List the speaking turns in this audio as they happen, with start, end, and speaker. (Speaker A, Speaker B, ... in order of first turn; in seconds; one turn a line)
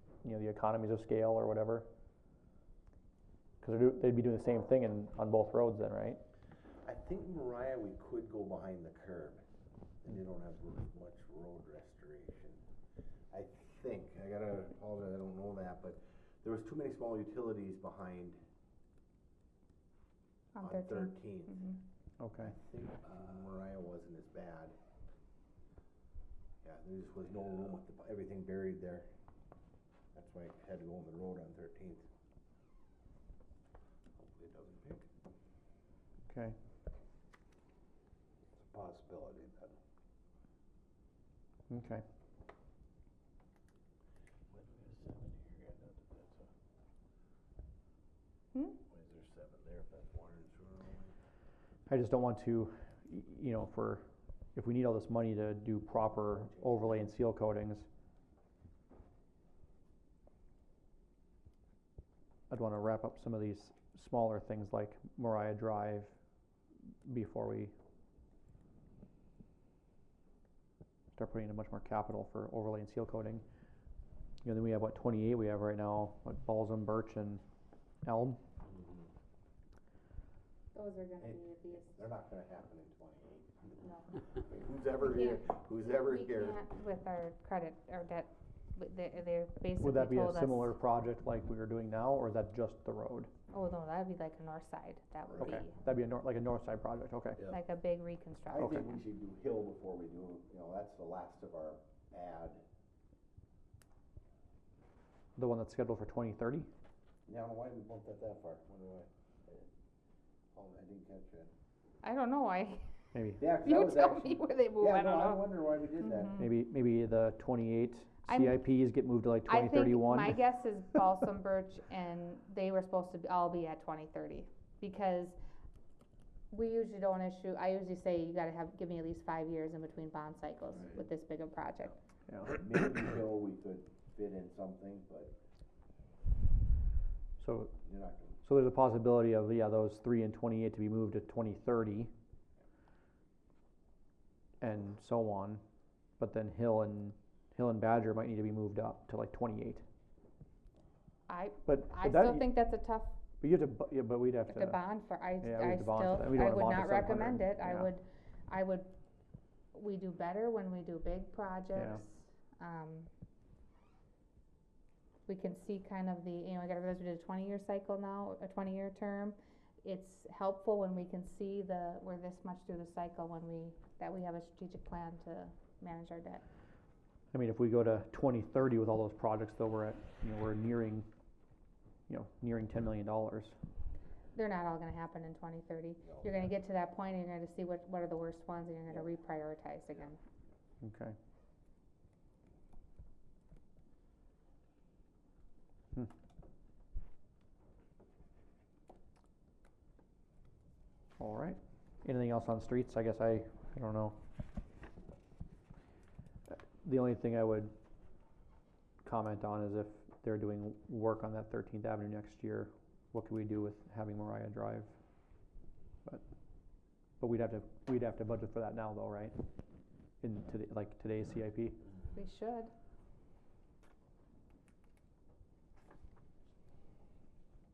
Speaker A: 0.2-1.9
Speaker A: 3.6-6.2
Speaker B: 6.8-9.4
Speaker B: 10.0-12.6
Speaker B: 13.3-18.4
Speaker C: 20.6-21.8
Speaker B: 20.6-21.6
Speaker A: 22.2-22.5
Speaker B: 22.4-24.7
Speaker B: 26.6-29.1
Speaker B: 30.1-32.0
Speaker B: 34.2-35.1
Speaker A: 36.3-36.6
Speaker B: 38.7-39.7
Speaker A: 41.7-42.0
Speaker B: 44.5-46.5
Speaker C: 48.5-48.8
Speaker B: 48.9-51.1
Speaker A: 51.9-57.9
Speaker B: 56.4-57.0
Speaker A: 62.5-66.1
Speaker A: 67.0-67.7
Speaker A: 71.2-73.4
Speaker A: 74.4-77.4
Speaker A: 78.0-78.4
Speaker B: 78.7-79.1
Speaker C: 80.7-82.0
Speaker B: 81.2-83.8
Speaker C: 83.8-84.1
Speaker B: 84.3-86.6
Speaker C: 85.0-90.8
Speaker A: 89.8-93.3
Speaker C: 93.5-95.8
Speaker A: 95.3-97.5
Speaker C: 97.5-98.9
Speaker B: 98.5-102.6
Speaker A: 105.4-106.7
Speaker B: 107.3-109.7
Speaker B: 110.5-111.5
Speaker C: 112.0-112.9
Speaker A: 113.1-113.5
Speaker B: 113.4-116.4
Speaker C: 113.7-115.5
Speaker C: 116.2-116.5
Speaker A: 116.4-120.5
Speaker C: 118.3-118.6
Speaker C: 119.5-125.4
Speaker C: 126.5-132.0
Speaker B: 132.4-135.3
Speaker A: 137.4-137.8
Speaker B: 137.8-138.4
Speaker A: 138.4-142.1
Speaker A: 144.6-145.6
Speaker A: 146.2-149.8
Speaker C: 151.3-153.1
Speaker A: 151.7-152.6
Speaker A: 153.4-154.8
Speaker C: 154.5-158.9
Speaker A: 155.4-157.9
Speaker C: 159.7-163.1
Speaker A: 161.8-162.0
Speaker C: 165.3-176.4
Speaker A: 177.3-181.1
Speaker A: 182.1-183.6
Speaker C: 184.3-190.2
Speaker A: 190.8-191.2
Speaker A: 201.2-204.2
Speaker A: 206.5-207.7
Speaker A: 209.0-214.9
Speaker A: 217.2-219.3
Speaker A: 220.2-221.8
Speaker C: 222.1-222.7